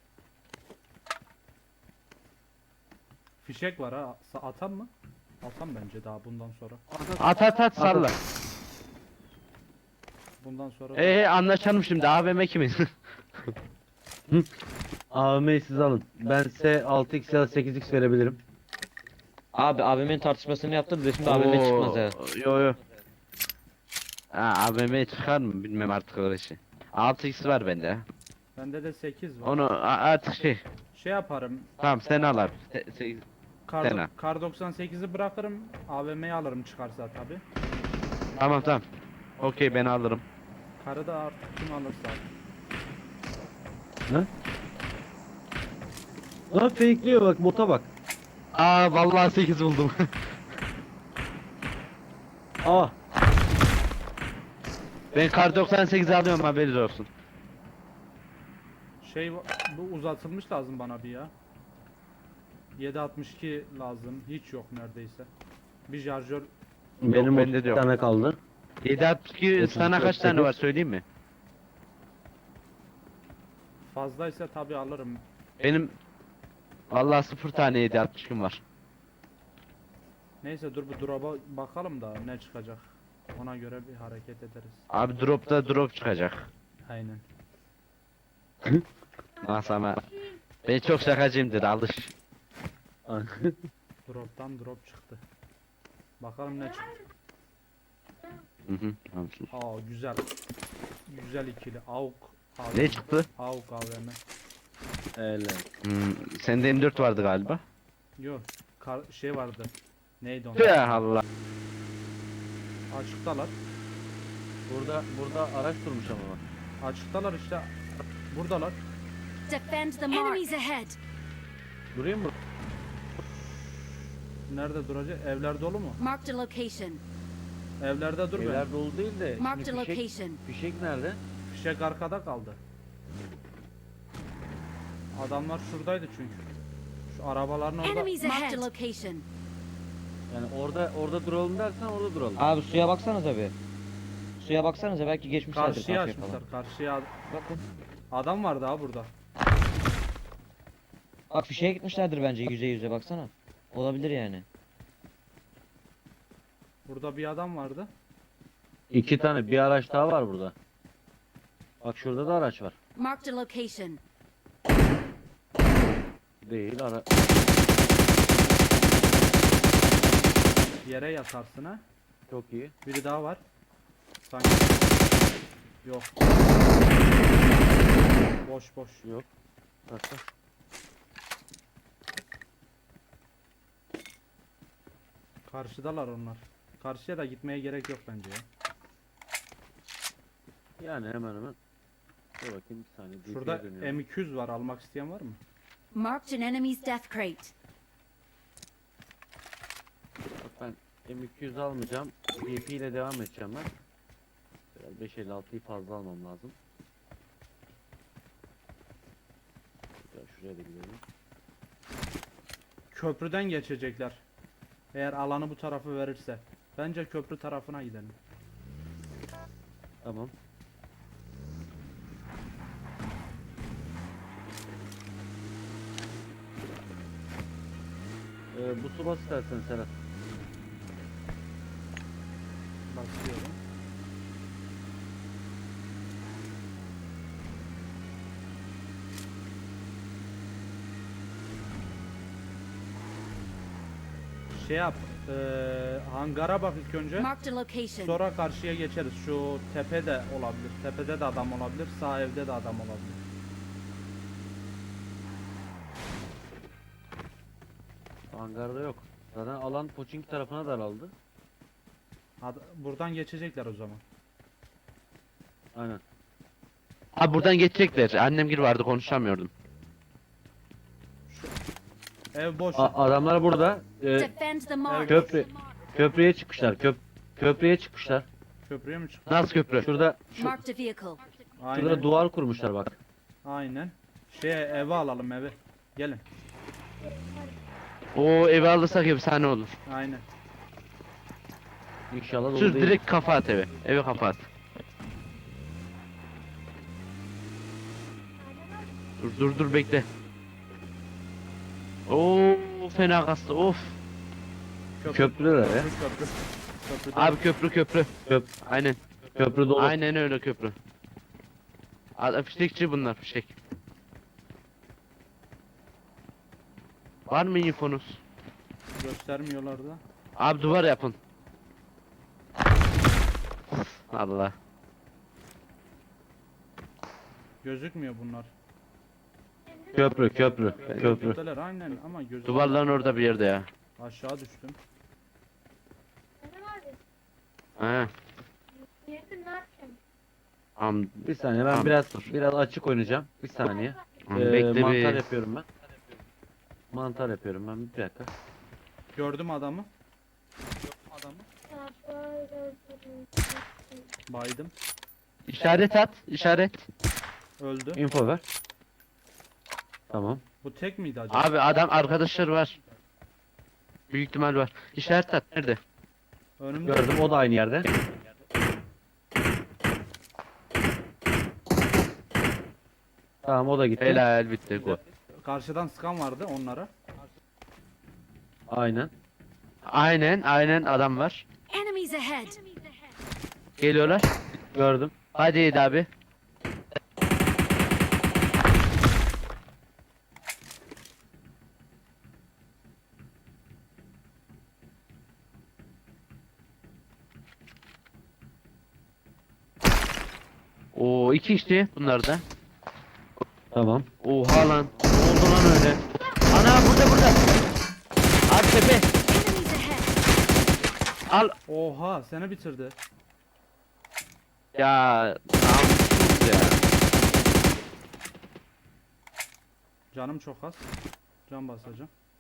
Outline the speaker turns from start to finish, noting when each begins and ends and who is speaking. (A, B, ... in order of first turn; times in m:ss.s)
0:03.4-0:06.8 A
0:06.9-0:08.1 B
0:07.2-0:08.2 C
0:10.4-0:11.2 A
0:10.9-0:13.5 C
0:15.1-0:18.4 B
0:19.5-0:22.2 D
0:21.2-0:22.8 C
0:24.3-0:28.1 C
0:28.6-0:29.6 A
0:29.4-0:30.6 C
0:30.9-0:31.7 A
0:31.8-0:33.2 C
0:33.7-0:37.4 A
0:33.8-0:34.1 C
0:38.4-0:38.8 C
0:39.4-0:40.2 C
0:40.8-0:42.3 A
0:46.5-0:47.9 B
0:48.5-0:50.1 C
0:52.6-0:52.9 B
0:55.1-0:57.1 C
0:59.0-1:01.3 A
1:02.8-1:05.3 A
1:05.9-1:06.5 A
1:07.0-1:08.4 B
1:07.1-1:07.9 C
1:08.8-1:11.0 C
1:09.6-1:10.6 B
1:13.9-1:15.2 A
1:15.6-1:16.0 C
1:16.9-1:18.6 C
1:20.4-1:24.8 A
1:24.9-1:26.5 C
1:26.8-1:27.2 A
1:29.4-1:30.1 C
1:30.6-1:32.1 C
1:33.1-1:33.6 B
1:34.1-1:35.2 A
1:36.2-1:37.0 A
1:38.7-1:39.5 C
1:39.5-1:40.3 A
1:41.1-1:44.2 A
1:42.7-1:43.3 C
1:45.2-1:45.7 B
1:45.8-1:47.6 C
1:48.2-1:51.0 A
1:50.6-1:51.2 C
1:52.9-1:53.6 A
1:54.7-1:56.4 B
1:56.8-1:57.7 A
1:58.3-1:58.8 A
1:59.5-2:01.0 E
2:01.9-2:02.3 B
2:04.5-2:06.0 A
2:06.0-2:07.0 E
2:07.8-2:08.7 A
2:08.3-2:11.2 B
2:09.4-2:10.4 E
2:11.5-2:12.6 A
2:15.2-2:16.4 A
2:17.1-2:18.6 A
2:17.8-2:19.2 E
2:20.3-2:22.4 B
2:22.4-2:23.6 D
2:24.4-2:26.4 D
2:25.5-2:27.1 A
2:27.3-2:27.6 D
2:28.1-2:29.1 A
2:31.3-2:34.4 D
2:36.9-2:37.9 A
2:38.9-2:40.6 B
2:41.8-2:42.8 B
2:43.0-2:44.0 E
2:46.4-2:47.4 B
2:50.8-2:51.8 A
2:52.3-2:52.7 B
2:52.8-2:53.4 A
2:54.2-2:54.8 A
2:55.8-2:56.2 A
2:58.4-2:59.0 A
2:59.9-3:00.2 B
3:05.5-3:08.5 A
3:10.8-3:11.6 B
3:12.4-3:14.0 B
3:13.3-3:15.4 A
3:15.9-3:17.5 E
3:20.4-3:23.7 B
3:24.8-3:26.6 B
3:30.1-3:31.0 B
3:32.9-3:34.2 A
3:34.9-3:38.2 A
3:40.0-3:40.3 B
3:48.5-3:49.9 B
3:52.9-3:53.6 A
4:04.5-4:07.3 A
4:07.2-4:08.2 E
4:08.0-4:13.2 A
4:18.3-4:21.1 B
4:22.4-4:24.0 A
4:25.8-4:26.0 B
4:27.2-4:29.5 C
4:31.3-4:31.5 A
4:32.4-4:33.0 A
4:32.8-4:34.3 B
4:34.2-4:35.5 E
4:34.8-4:35.4 A
4:35.1-4:38.3 B
4:38.6-4:39.4 A
4:39.3-4:39.9 C
4:39.8-4:40.6 B
4:40.4-4:41.3 E
4:41.6-4:42.1 A
4:41.7-4:43.0 B
4:43.4-4:46.2 A
4:48.2-4:49.7 C
4:49.9-4:50.3 A
4:52.1-4:53.0 B
4:52.6-4:54.4 C
4:59.2-5:00.1 C
5:02.1-5:04.0 C
5:05.0-5:07.4 A
5:05.1-5:05.9 B
5:07.1-5:08.1 C
5:08.3-5:08.6 B
5:08.6-5:09.0 C
5:09.4-5:10.0 B
5:09.8-5:10.8 C
5:12.2-5:13.6 C
5:17.3-5:18.2 C
5:19.0-5:20.0 A
5:20.4-5:21.2 C
5:23.7-5:24.6 C
5:27.6-5:28.5 A
5:29.9-5:31.4 B
5:30.9-5:33.3 A
5:31.0-5:31.3 C
5:32.4-5:33.7 C
5:34.0-5:34.8 A
5:37.8-5:38.1 C
5:40.8-5:41.2 C
5:41.2-5:45.7 B
5:41.7-5:42.3 C
5:44.3-5:45.2 C
5:46.9-5:48.3 B
5:49.2-5:49.9 A
5:50.9-5:51.5 A
5:54.3-5:54.7 A
5:55.5-5:56.8 C
5:57.6-5:58.0 A
5:58.0-5:58.4 B
6:00.1-6:00.4 B
6:00.6-6:01.5 A
6:01.3-6:02.8 C
6:04.1-6:05.8 C
6:06.6-6:07.2 A
6:06.8-6:07.9 B
6:13.4-6:14.2 B
6:14.0-6:15.0 C
6:15.4-6:16.9 A
6:18.7-6:19.1 B
6:19.8-6:21.5 C
6:21.7-6:22.6 E
6:23.8-6:24.3 C
6:24.7-6:25.2 B
6:25.3-6:26.1 C
6:41.0-6:42.4 C
6:43.7-6:44.1 B
6:44.2-6:47.5 C
6:48.5-6:49.1 C
6:49.3-6:50.1 E
6:51.3-6:51.6 C
6:51.7-6:53.0 A
6:54.8-6:56.8 C
7:00.1-7:00.9 A
7:01.5-7:02.1 A